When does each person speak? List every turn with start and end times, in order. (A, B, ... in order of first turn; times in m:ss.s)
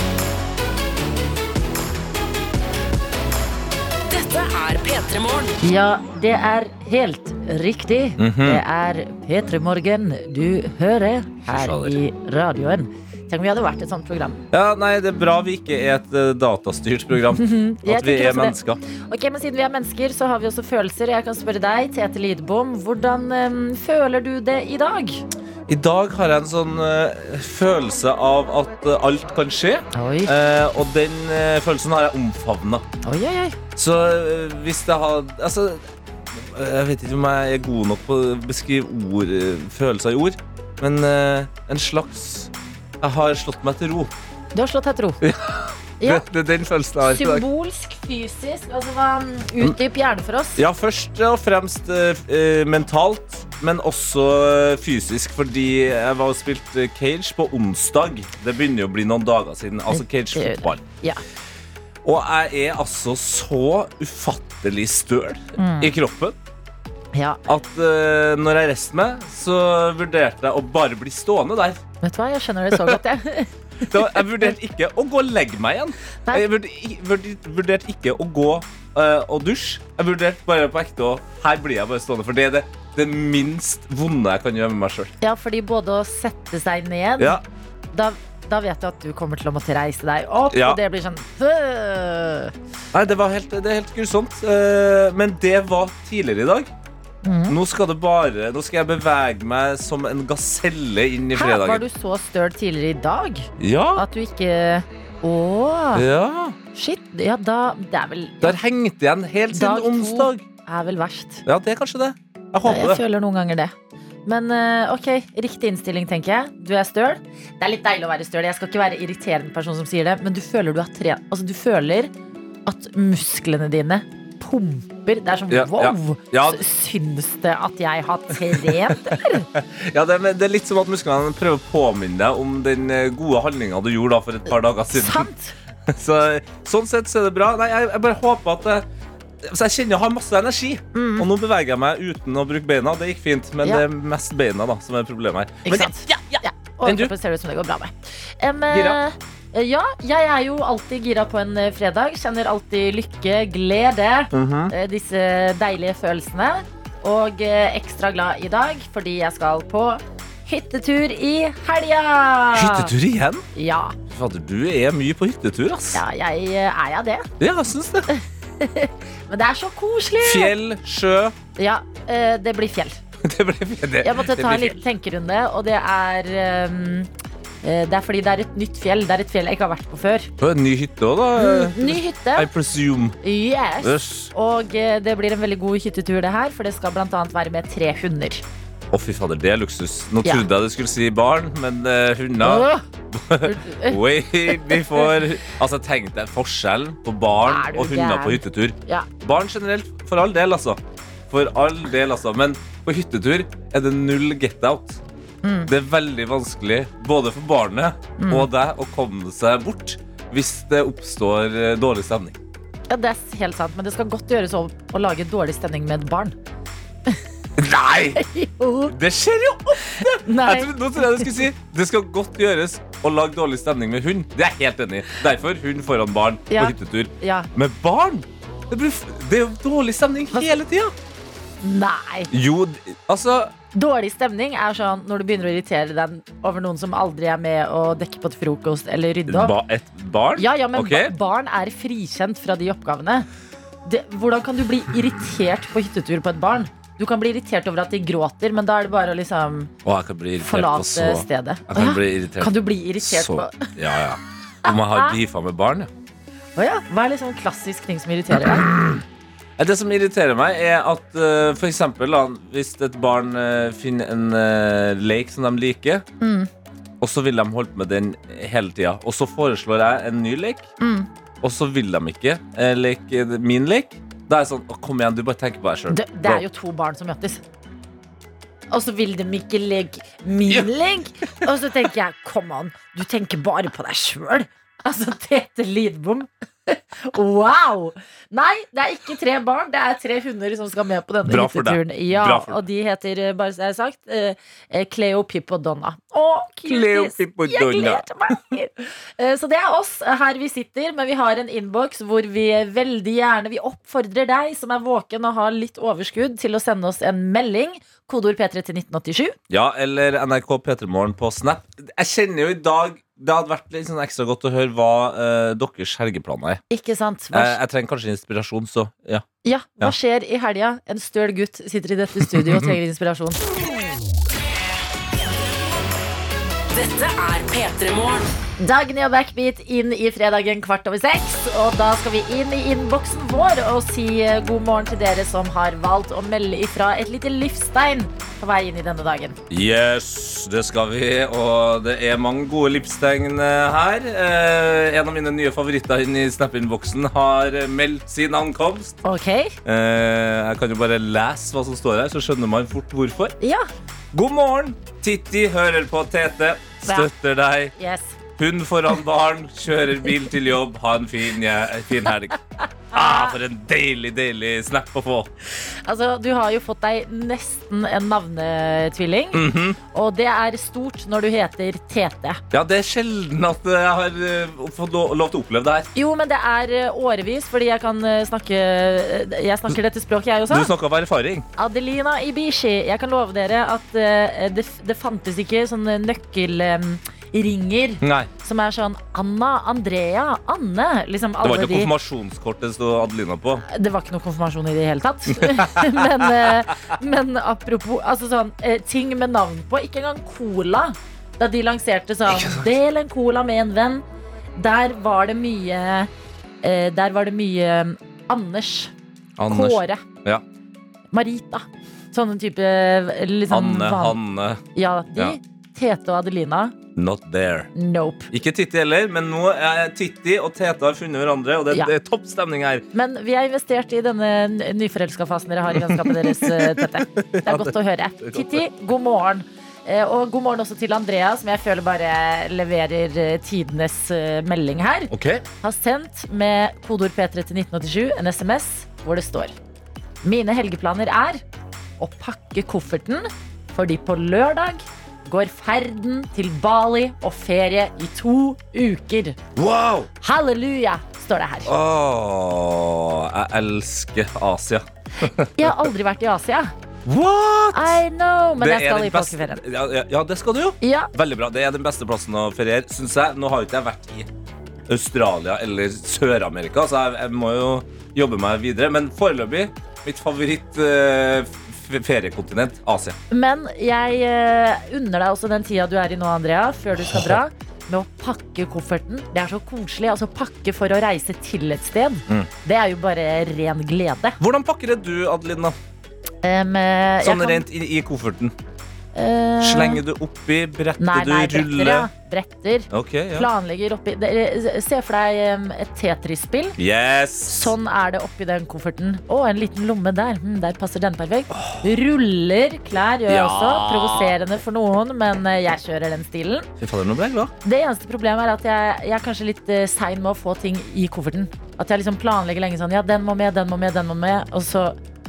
0:04.1-0:05.6 A
0:05.6-0:14.4 B
0:08.2-0:08.6 C
0:11.5-0:11.9 C
0:14.5-0:18.8 C
0:17.4-0:18.6 B
0:19.1-0:25.2 B
0:25.7-0:32.8 C
0:29.9-0:30.3 B
0:33.0-0:33.6 B
0:33.8-0:44.1 C
0:44.5-0:45.2 B
0:45.2-0:47.4 C
0:46.0-0:46.2 B
0:47.0-0:50.6 B
0:50.6-1:00.8 C
0:59.9-1:01.2 B
1:02.0-1:06.4 C
1:05.6-1:05.9 B
1:07.1-1:07.4 B
1:07.4-1:11.8 C
1:12.0-1:14.5 B
1:12.7-1:13.0 C
1:13.9-1:25.1 C
1:25.2-1:27.4 B
1:27.2-1:27.4 C
1:27.9-1:32.5 B
1:30.5-1:30.8 C
1:32.9-1:36.7 C
1:37.2-1:37.6 B
1:37.5-1:41.8 C
1:41.3-1:46.0 B
1:43.6-1:44.0 C
1:45.9-1:46.6 C
1:46.7-1:48.6 B
1:48.4-1:50.4 C
1:49.5-1:51.4 B
1:51.4-1:53.0 C
1:52.6-1:53.7 B
1:54.2-2:02.1 B
2:02.6-2:09.5 B
2:05.5-2:06.6 C
2:08.5-2:15.3 C
2:14.9-2:15.6 B
2:15.9-2:18.8 C
2:19.4-2:27.1 C
2:20.9-2:21.3 B
2:25.6-2:42.9 B
2:28.7-2:29.0 C
2:34.3-2:34.7 C
2:42.5-2:43.4 C
2:43.5-2:44.0 B
2:44.1-2:46.0 C
2:45.9-2:47.3 B
2:47.4-2:48.1 C
2:48.1-2:50.5 B
2:50.2-2:51.4 C
2:51.6-2:53.0 B
2:53.2-2:54.8 C
2:54.0-2:57.1 B
2:57.6-3:00.3 B
3:00.4-3:03.2 C
3:01.4-3:02.5 B
3:03.2-3:08.4 B
3:03.8-3:04.3 C
3:08.9-3:25.0 C
3:12.4-3:12.8 B
3:13.4-3:15.1 B
3:17.4-3:19.1 B
3:25.4-3:25.7 B
3:25.7-3:32.4 C
3:28.2-3:28.5 B
3:32.9-3:36.4 B
3:37.6-3:38.2 C
3:38.2-3:38.9 B
3:38.9-3:50.9 C
3:39.9-3:41.3 B
3:46.5-3:47.5 B
3:51.6-3:52.3 B
3:52.3-3:53.5 C
3:53.7-3:59.5 B
3:59.3-4:01.1 C
4:00.4-4:03.3 B
4:03.8-4:09.7 B
4:09.8-4:15.9 C
4:10.4-4:13.7 B
4:14.6-4:15.2 B
4:16.6-4:18.7 B
4:18.3-4:19.0 C
4:19.6-4:26.0 C
4:26.2-4:26.5 B
4:27.0-4:30.7 C
4:30.8-4:31.1 B
4:31.4-4:36.4 C
4:35.9-4:37.4 B
4:38.7-5:09.4 B
4:51.2-4:52.6 C
4:56.6-4:58.0 C
5:09.5-5:16.6 C
5:16.7-5:17.6 B
5:17.3-5:19.2 C
5:19.4-5:23.4 B
5:22.3-5:22.8 C
5:26.7-5:28.4 A
5:28.6-5:39.4 B
5:39.5-5:49.0 C
5:49.0-5:49.6 B
5:49.6-5:53.4 C
5:53.4-5:53.7 B
5:54.1-5:57.7 C
5:57.8-5:58.1 B
5:58.4-6:05.3 C
6:02.9-6:03.3 B
6:05.8-6:12.4 B
6:09.3-6:09.8 C
6:12.5-6:15.9 C
6:15.9-6:20.7 B
6:20.5-6:21.4 C
6:21.6-6:31.9 B
6:28.0-6:28.3 C
6:31.4-6:33.6 C
6:33.6-6:44.0 B
6:35.3-6:36.6 C
6:42.3-6:42.7 C
6:44.6-6:46.1 B
6:46.6-6:48.9 B
6:49.4-6:50.4 C
6:49.5-6:50.0 B
6:51.1-6:54.2 B
6:53.5-6:54.6 C
6:54.7-6:56.7 B
6:57.0-6:57.7 C
6:57.7-6:58.3 B
6:58.3-7:02.8 C
7:02.9-7:19.5 B
7:05.7-7:08.6 C
7:15.1-7:15.4 C
7:20.2-7:21.4 B
7:22.0-7:29.4 B
7:29.5-7:30.1 C
7:30.2-7:31.7 B
7:31.6-7:35.9 C
7:35.6-7:36.7 B
7:37.0-7:38.0 C
7:37.7-7:39.6 B
7:38.6-7:44.3 C
7:40.8-7:41.1 B
7:44.9-7:53.2 C
7:53.3-8:04.4 B
7:57.0-7:57.4 C
8:04.4-8:05.7 C
8:06.4-8:07.6 B
8:07.2-8:08.5 C
8:09.1-8:10.0 B
8:09.6-8:12.1 C
8:11.0-8:16.8 B
8:12.9-8:13.5 C
8:16.8-8:17.7 C
8:17.5-8:26.7 B
8:21.5-8:21.8 C
8:23.3-8:24.3 C
8:26.8-8:27.5 C
8:27.6-8:35.0 B